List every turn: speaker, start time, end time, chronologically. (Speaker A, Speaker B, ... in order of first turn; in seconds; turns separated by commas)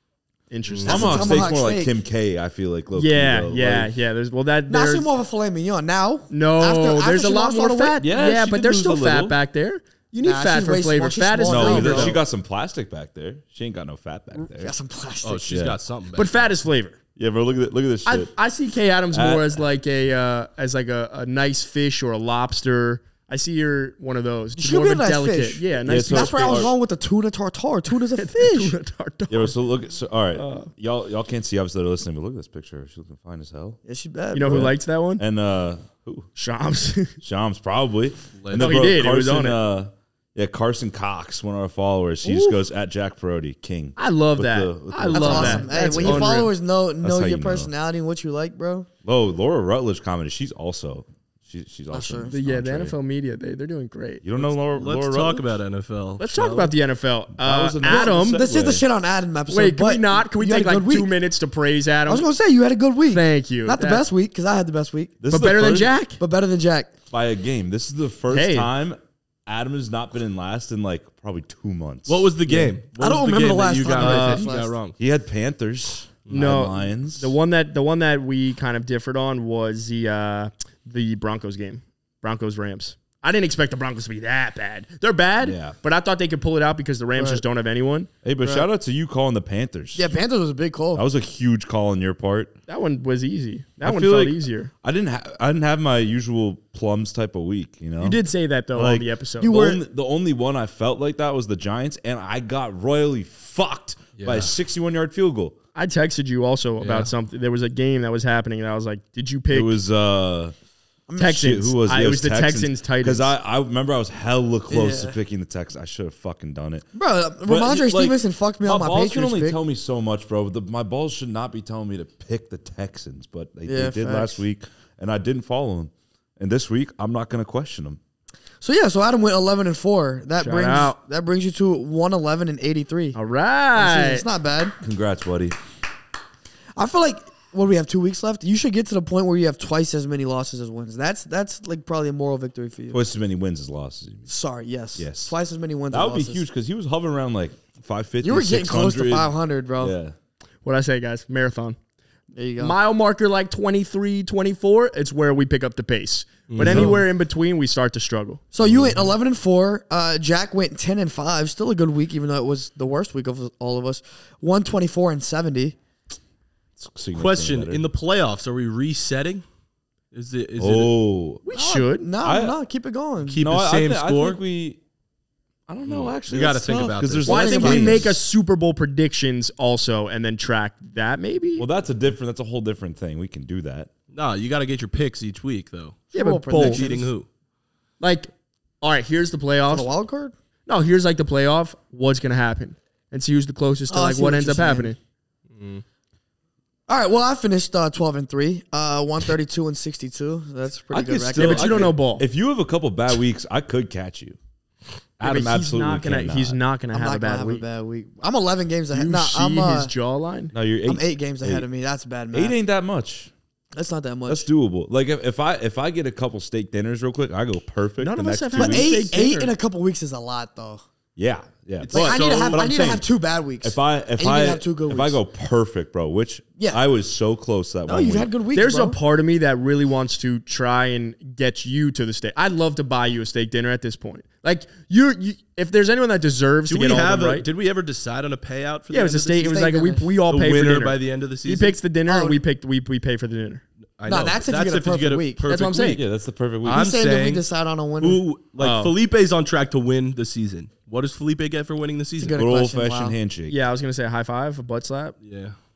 Speaker A: 0.5-1.5, Speaker B: 0.7-1.1, Speaker C: 0.8-1.9, Speaker D: 0.8-3.9, Speaker A: 2.9-5.1, Speaker C: 4.7-8.0, Speaker A: 6.3-12.2, Speaker D: 8.0-9.3, Speaker C: 10.2-12.2, Speaker D: 11.4-14.7, Speaker C: 14.6-15.5, Speaker B: 15.2-16.3, Speaker D: 15.5-15.8, Speaker A: 16.1-17.0, Speaker D: 17.2-18.3, Speaker A: 18.1-26.7, Speaker D: 19.1-19.6, Speaker C: 24.6-28.7, Speaker D: 25.9-26.7, Speaker A: 28.1-29.5, Speaker D: 29.3-33.8, Speaker A: 30.3-30.7, Speaker C: 33.8-34.7, Speaker A: 34.3-35.2, Speaker D: 34.4-36.3, Speaker A: 36.4-37.1, Speaker D: 37.2-46.3, Speaker B: 38.4-38.7, Speaker A: 38.6-39.6, Speaker A: 42.2-42.5, Speaker A: 44.0-46.5, Speaker C: 45.1-48.9, Speaker D: 47.0-47.7, Speaker D: 49.0-52.9, Speaker C: 51.9-52.3, Speaker A: 52.3-54.2, Speaker D: 54.2-55.5, Speaker B: 54.7-56.7, Speaker A: 56.2-58.4, Speaker D: 57.4-58.8, Speaker C: 57.8-61.1, Speaker A: 59.5-62.2, Speaker C: 62.1-65.2, Speaker A: 63.1-64.0, Speaker D: 65.2-66.0, Speaker A: 65.3-66.2, Speaker C: 66.2-66.9, Speaker D: 67.1-72.3, Speaker A: 68.3-68.7, Speaker B: 72.1-75.0, Speaker A: 72.5-72.7, Speaker C: 73.0-74.7, Speaker A: 73.9-74.5, Speaker D: 75.0-77.3, Speaker A: 76.3-88.1, Speaker D: 85.4-85.7, Speaker C: 87.2-87.4, Speaker D: 88.2-90.1, Speaker C: 88.4-88.7, Speaker C: 89.9-91.0, Speaker D: 90.9-92.5, Speaker A: 92.7-94.7, Speaker D: 93.8-98.2, Speaker A: 98.0-99.6, Speaker D: 98.7-105.5, Speaker C: 99.4-99.8, Speaker B: 104.2-104.5, Speaker A: 105.7-109.8, Speaker B: 106.8-107.1, Speaker D: 109.5-110.5, Speaker C: 111.1-111.4, Speaker A: 111.2-113.3, Speaker D: 111.2-116.8, Speaker C: 114.7-115.2, Speaker C: 116.9-119.6, Speaker D: 117.4-128.0, Speaker C: 123.7-124.4, Speaker C: 128.6-133.2, Speaker A: 130.4-130.9, Speaker A: 133.1-134.2, Speaker C: 133.7-134.8, Speaker D: 134.8-135.6, Speaker C: 136.8-143.0, Speaker D: 142.9-144.3, Speaker C: 144.3-146.4, Speaker D: 144.9-145.3, Speaker D: 145.9-150.1, Speaker C: 148.2-149.9, Speaker A: 150.6-151.8, Speaker C: 152.3-152.8, Speaker A: 152.6-158.4, Speaker B: 156.5-157.0, Speaker C: 156.6-157.0, Speaker C: 158.5-165.8, Speaker D: 166.8-167.8, Speaker B: 167.1-169.4, Speaker B: 170.1-170.9, Speaker D: 170.6-171.4, Speaker A: 171.4-172.1, Speaker C: 171.5-173.4, Speaker D: 172.2-172.6, Speaker B: 173.2-174.4, Speaker D: 173.4-174.8, Speaker D: 175.7-178.2, Speaker B: 175.9-177.4, Speaker C: 177.2-178.1, Speaker A: 177.3-181.7, Speaker D: 181.6-183.9, Speaker B: 184.1-187.3, Speaker C: 186.1-187.1, Speaker A: 186.1-186.8, Speaker A: 188.0-189.9, Speaker C: 189.7-190.3, Speaker A: 190.7-195.0, Speaker C: 193.9-194.9, Speaker B: 195.5-195.8, Speaker C: 196.9-201.9, Speaker D: 200.9-204.4, Speaker A: 201.3-202.2, Speaker D: 205.2-206.6, Speaker A: 205.2-207.6, Speaker C: 206.9-209.9, Speaker A: 208.9-210.5, Speaker D: 210.5-211.7, Speaker C: 210.9-212.5, Speaker D: 212.3-213.3, Speaker C: 213.7-214.5, Speaker D: 214.3-218.9, Speaker A: 218.0-219.5, Speaker C: 218.6-220.8, Speaker D: 221.2-223.0, Speaker B: 221.8-222.6, Speaker C: 221.9-225.2, Speaker D: 223.6-228.3, Speaker C: 227.9-229.0, Speaker A: 228.5-237.5, Speaker B: 236.7-239.6, Speaker A: 238.9-243.6, Speaker C: 239.4-240.1, Speaker B: 240.3-241.8, Speaker C: 242.1-242.4, Speaker B: 244.0-246.0, Speaker C: 244.1-245.4, Speaker A: 245.4-246.0, Speaker D: 245.9-246.9, Speaker B: 246.6-247.4, Speaker C: 246.7-248.2, Speaker B: 248.0-252.4, Speaker A: 248.6-248.9, Speaker C: 252.2-253.2, Speaker D: 252.3-253.6, Speaker A: 253.5-255.2, Speaker B: 255.2-255.6